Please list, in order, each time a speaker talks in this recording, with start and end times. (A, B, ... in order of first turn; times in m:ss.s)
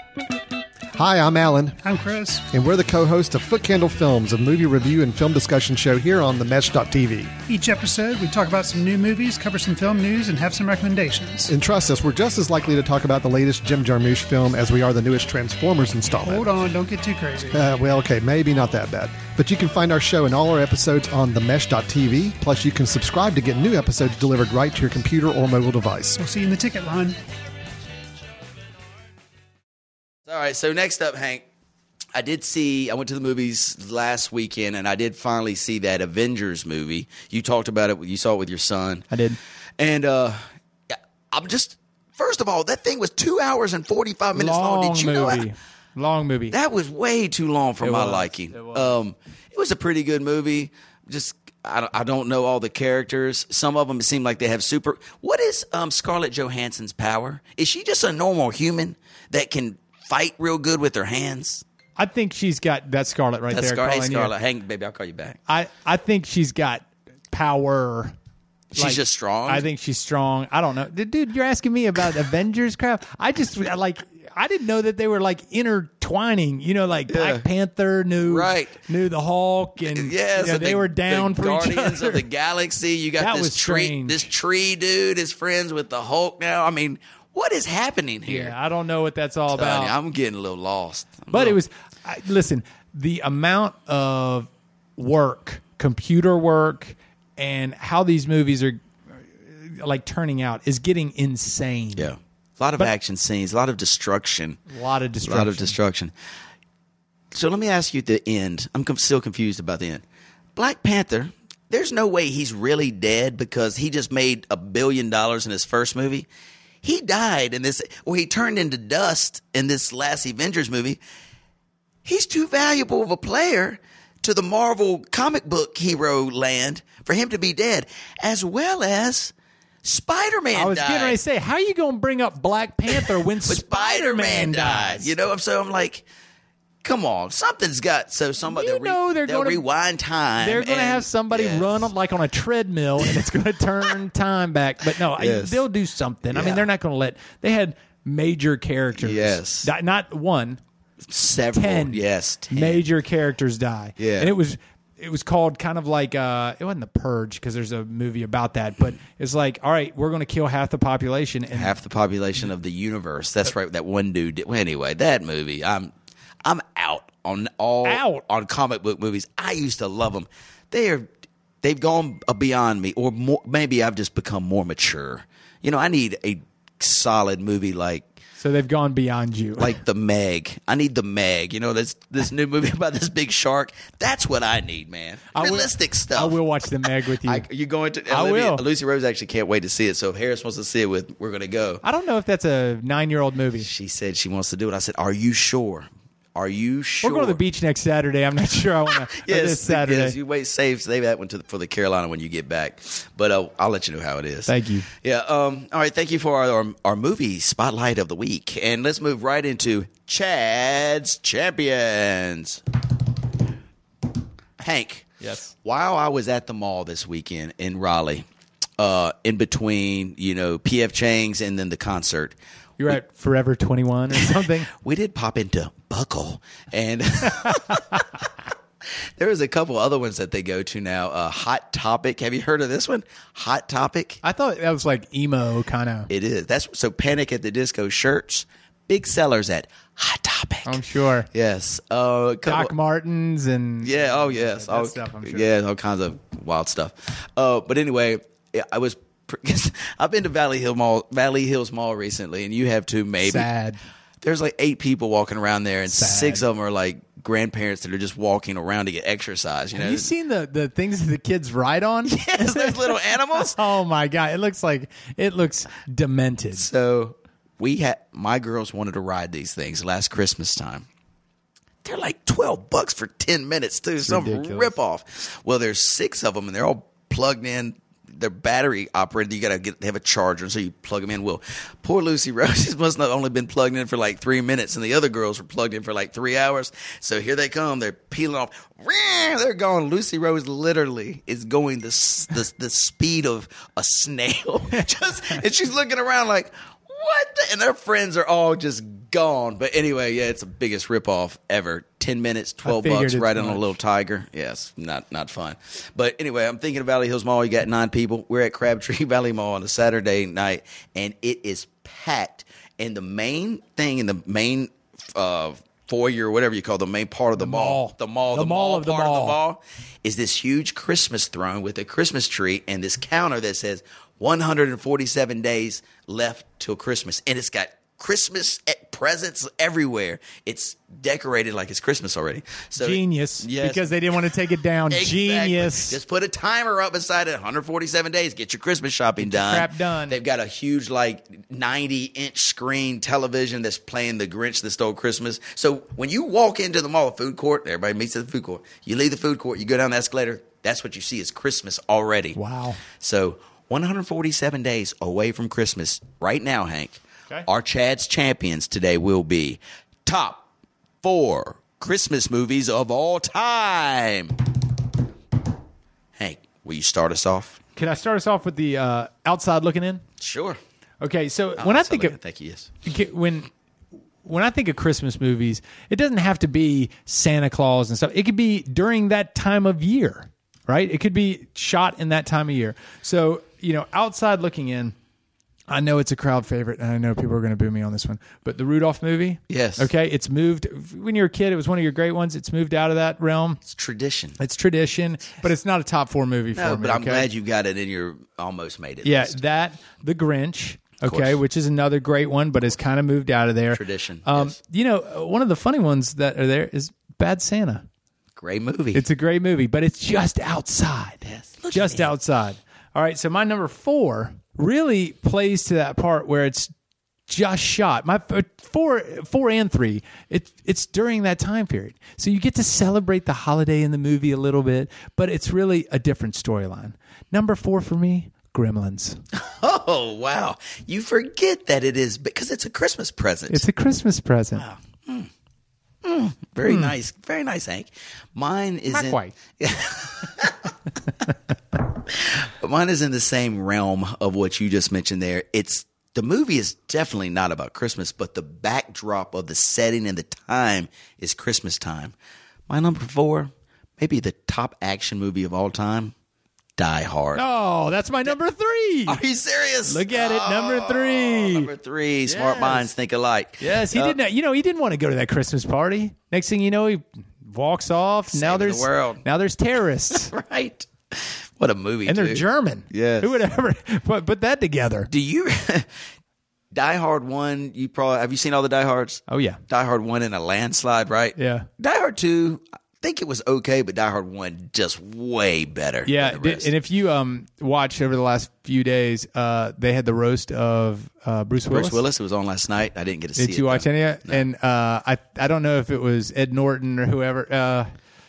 0:00.9-0:01.8 A
0:01.8-0:02.5 B
0:02.5-0:07.3 A
0:07.5-0:11.5 B
0:11.5-0:16.5 A
0:16.2-0:17.6 B
0:17.5-0:26.2 A
0:26.2-0:27.2 B
0:30.3-0:31.4 C
0:32.1-0:39.0 C
0:39.1-0:39.4 D
0:39.8-0:45.5 C
0:44.3-0:46.6 D
0:46.5-1:01.6 C
0:47.8-0:48.9 D
1:02.0-1:04.3 D
1:03.5-1:05.4 C
1:05.5-1:08.1 D
1:08.7-1:09.6 C
1:08.7-1:22.2 D
1:17.1-1:17.4 C
1:18.2-1:18.8 C
1:19.9-1:28.6 C
1:23.2-1:24.3 D
1:28.2-1:29.9 D
1:29.5-1:31.6 C
1:31.3-1:38.8 D
1:39.4-1:42.1 D
1:42.0-1:44.6 C
1:44.7-1:45.8 D
1:45.2-1:46.1 C
1:47.3-1:50.0 C
1:50.6-1:56.3 C
1:56.8-2:01.0 C
2:02.0-2:11.2 C
2:10.5-2:15.1 D
2:12.9-2:16.0 C
2:16.8-2:21.9 C
2:18.4-2:19.6 D
2:20.4-2:30.6 D
2:25.0-2:25.6 C
2:26.3-2:26.7 C
2:29.0-2:29.7 C
2:31.0-2:32.8 C
2:31.5-2:41.8 D
2:34.0-2:34.3 C
2:41.5-2:51.1 C
2:47.8-2:48.2 D
2:51.6-2:58.1 C
2:58.4-2:59.8 D
2:59.6-3:06.4 C
3:05.3-3:07.4 D
3:07.1-3:11.8 C
3:08.1-3:08.6 D
3:11.8-3:13.7 D
3:13.6-3:17.4 C
3:17.0-3:20.2 D
3:18.9-3:32.6 C
3:24.5-3:24.9 D
3:34.6-3:38.2 C
3:35.2-3:35.5 D
3:38.8-3:42.4 C
3:42.8-3:44.7 D
3:44.1-3:48.3 C
3:49.2-3:54.2 C
3:54.2-3:56.1 D
3:56.1-4:00.8 C
4:00.6-4:01.3 D
4:01.3-4:02.7 C
4:02.4-4:05.4 D
4:03.8-4:13.5 C
4:13.2-4:13.8 D
4:14.2-4:20.1 C
4:15.9-4:16.4 D
4:19.7-4:26.7 D
4:22.1-4:23.6 C
4:26.6-4:30.9 C
4:31.8-5:34.3 C
4:34.0-4:34.7 D
5:02.6-5:03.8 D
5:17.4-5:19.4 D
5:32.8-5:36.0 D
5:34.9-5:52.4 C
5:39.2-5:40.2 D
5:52.3-5:52.8 D
5:52.9-6:00.5 C
6:01.0-6:04.5 C
6:06.2-6:07.6 C
6:07.8-6:10.0 D
6:10.2-6:10.6 C
6:11.0-6:12.2 D
6:11.6-6:12.7 C
6:12.8-6:13.5 D
6:14.2-6:24.9 D
6:25.7-6:33.6 D
6:29.5-6:29.9 C
6:33.6-6:34.4 C
6:34.4-6:37.3 D
6:36.5-6:39.4 C
6:39.0-6:47.9 D
6:41.0-6:41.4 C
6:43.7-6:44.6 C
6:48.4-6:49.0 C
6:48.9-6:56.7 D
6:51.2-6:52.1 C
6:57.3-7:09.2 D
7:09.3-7:13.6 C
7:13.5-7:14.6 D
7:14.6-7:15.3 C
7:16.0-7:20.7 C
7:16.7-7:16.9 D
7:18.9-7:19.3 D
7:21.9-7:32.1 C
7:32.7-7:36.1 C
7:36.8-7:37.4 C
7:37.3-7:39.2 D
7:39.1-7:44.2 C
7:39.9-7:41.7 D
7:42.2-7:42.9 D
7:43.6-7:50.3 D
7:48.3-7:49.2 C
7:50.1-7:53.4 C
7:52.0-7:55.1 D
7:55.1-7:55.9 C
7:56.7-8:06.7 C
7:59.3-7:59.6 D
8:01.4-8:01.7 D
8:06.0-8:12.0 D
8:11.7-8:14.4 C
8:13.4-8:17.9 D